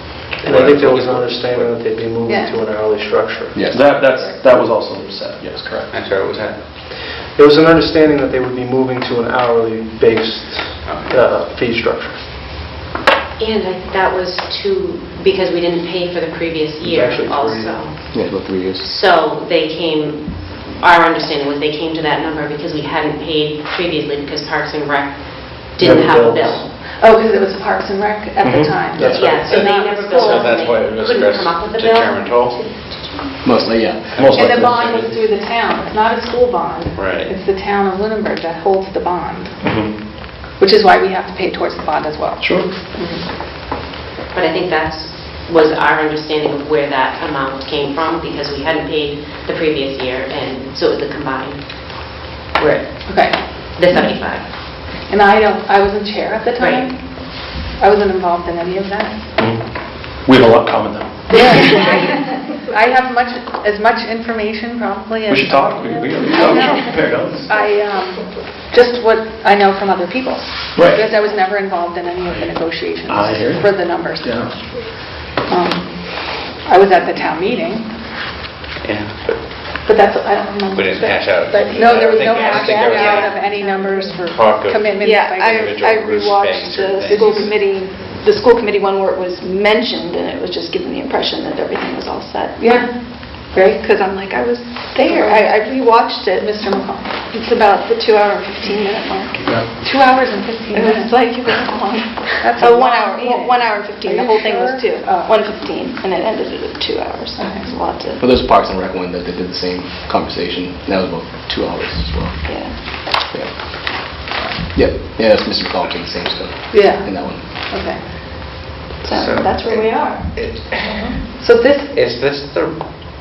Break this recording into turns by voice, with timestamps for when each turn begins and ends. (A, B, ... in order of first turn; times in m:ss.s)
0:00.3-0:03.7 A
0:00.4-0:01.6 B
0:02.2-0:02.6 C
0:03.5-0:03.8 B
0:03.7-0:05.9 D
0:03.9-0:04.4 C
0:05.9-0:06.6 E
0:07.3-0:12.2 A
0:10.8-0:11.1 E
0:13.4-0:18.0 F
0:16.8-0:17.9 A
0:18.1-0:19.0 B
0:18.8-0:26.6 F
0:25.8-0:26.6 A
0:27.0-0:30.7 C
0:28.4-0:28.7 D
0:28.9-0:29.3 A
0:29.0-0:29.3 B
0:29.1-0:33.3 F
0:29.4-0:32.6 E
0:33.4-0:34.2 B
0:34.2-0:35.0 D
0:34.3-0:39.6 C
0:36.9-0:37.3 E
0:39.6-0:39.9 D
0:40.6-0:43.2 C
0:42.4-0:42.7 D
0:44.3-0:51.6 F
0:52.5-0:52.8 F
0:53.0-0:53.4 C
0:53.7-0:54.4 F
0:55.0-0:57.0 C
0:56.6-0:56.9 F
0:57.8-0:59.2 C
0:59.4-0:59.7 D
1:00.2-1:01.9 D
1:01.3-1:06.9 C
1:05.3-1:07.5 D
1:07.5-1:14.4 C
1:10.7-1:11.1 D
1:13.1-1:14.5 D
1:15.5-1:17.9 C
1:18.8-1:19.4 E
1:19.8-1:25.6 C
1:20.7-1:27.5 E
1:22.8-1:23.7 G
1:25.0-1:32.9 G
1:27.1-1:27.4 C
1:32.6-1:33.8 C
1:33.5-1:39.5 G
1:35.0-1:35.6 C
1:36.4-1:37.3 C
1:39.6-1:41.1 C
1:40.7-1:48.2 G
1:42.4-1:45.5 C
1:47.4-1:47.7 C
1:48.2-1:52.4 B
1:52.5-1:52.9 G
1:53.1-1:53.5 B
1:54.7-1:57.4 B
1:56.7-1:57.1 C
1:57.7-1:58.0 C
1:59.0-2:00.3 G
1:59.1-2:01.2 E
2:01.4-2:01.9 C
2:01.9-2:02.7 E